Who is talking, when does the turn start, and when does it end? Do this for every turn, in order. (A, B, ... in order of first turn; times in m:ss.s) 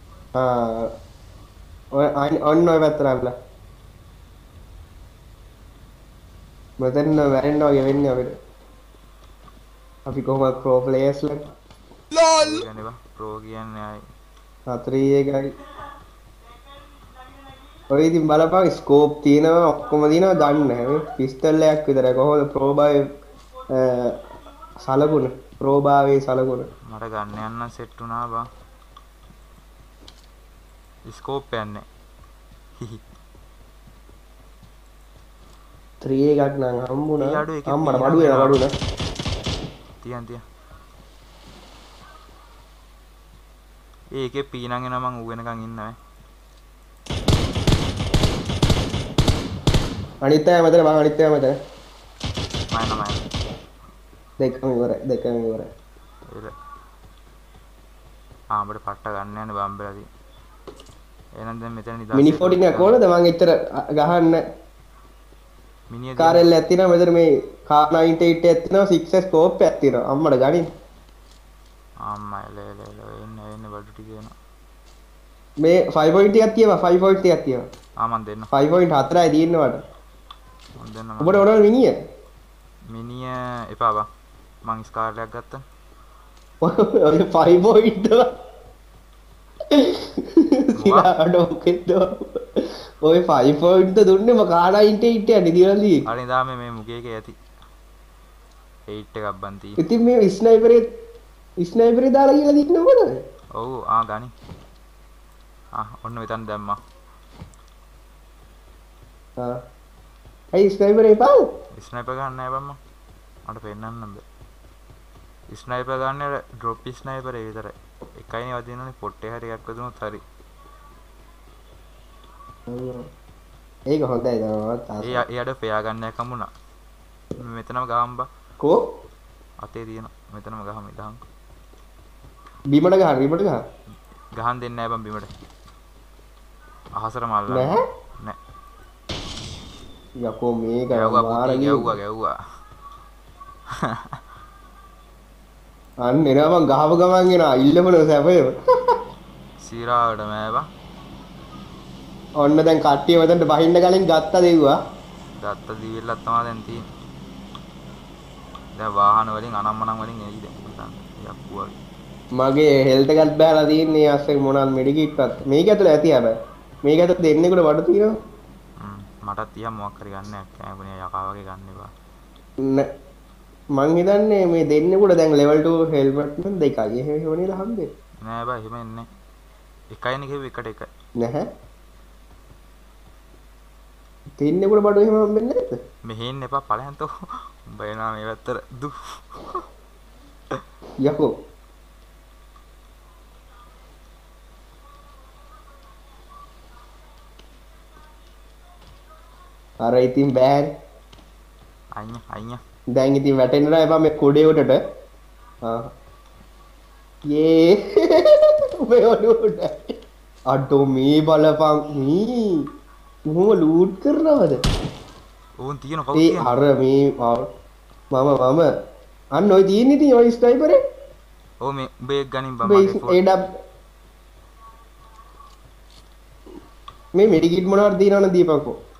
0:00.4-0:00.9 A
0:02.0-0:03.3 A
0:06.8-0:08.3 A
0:10.1-0:11.5 A
0:12.4-0:14.0 B
0:14.7-0:15.5 A
0:17.9-0:23.0 A
0:23.7-0:24.2 A
0:24.8-0:26.7 A
0:26.9-0:28.5 B
0:31.1-0:31.8 B
0:36.0-0:38.7 A
0:37.2-0:38.6 B
0:40.0-0:40.4 B
0:44.1-0:46.0 B
0:50.2-0:51.6 A
0:52.7-0:53.3 B
0:54.4-0:55.7 A
0:58.5-1:00.0 B
1:01.4-1:03.0 B
1:02.1-1:04.4 A
1:05.9-1:06.5 B
1:06.2-1:10.7 A
1:12.0-1:14.3 B
1:15.6-1:17.6 A
1:18.0-1:18.5 B
1:18.5-1:19.8 A
1:20.8-1:21.5 B
1:21.2-1:21.9 A
1:22.9-1:24.1 B
1:24.6-1:25.6 B
1:26.6-1:28.3 A
1:29.7-1:36.0 A
1:30.8-1:31.1 B
1:36.1-1:37.4 B
1:38.9-1:39.8 B
1:39.8-1:40.9 A
1:41.6-1:43.2 A
1:43.6-1:44.3 B
1:45.8-1:46.8 B
1:50.5-1:51.5 A
1:51.8-1:52.8 B
1:53.5-1:54.2 B
1:55.5-2:00.2 B
2:02.7-2:03.0 A
2:03.9-2:05.2 A
2:05.0-2:06.5 B
2:07.4-2:08.3 B
2:09.6-2:11.2 B
2:12.7-2:13.6 A
2:14.4-2:15.3 B
2:17.0-2:18.4 B
2:17.5-2:17.8 A
2:20.2-2:22.0 A
2:20.9-2:22.3 B
2:23.8-2:24.2 B
2:26.0-2:28.5 A
2:29.6-2:30.7 B
2:32.4-2:34.8 A
2:35.4-2:36.8 B
2:38.8-2:41.8 B
2:42.4-2:48.1 A
2:48.8-2:51.9 B
2:52.6-2:52.9 A
2:53.8-2:57.9 A
2:58.2-2:59.1 B
2:59.9-3:00.9 B
3:01.2-3:01.5 A
3:04.4-3:05.8 A
3:06.1-3:07.1 B
3:07.7-3:09.6 B
3:11.0-3:11.3 A
3:19.8-3:20.7 A
3:22.0-3:22.6 B
3:22.9-3:24.8 A
3:25.6-3:25.9 A
3:27.3-3:29.8 A
3:30.5-3:32.6 A
3:33.3-3:34.6 A
3:35.6-3:36.5 B
3:36.2-3:37.5 A
3:38.1-3:38.7 A
3:39.4-3:40.8 A
3:41.6-3:43.2 B
3:42.6-3:43.5 A
3:47.2-3:48.8 A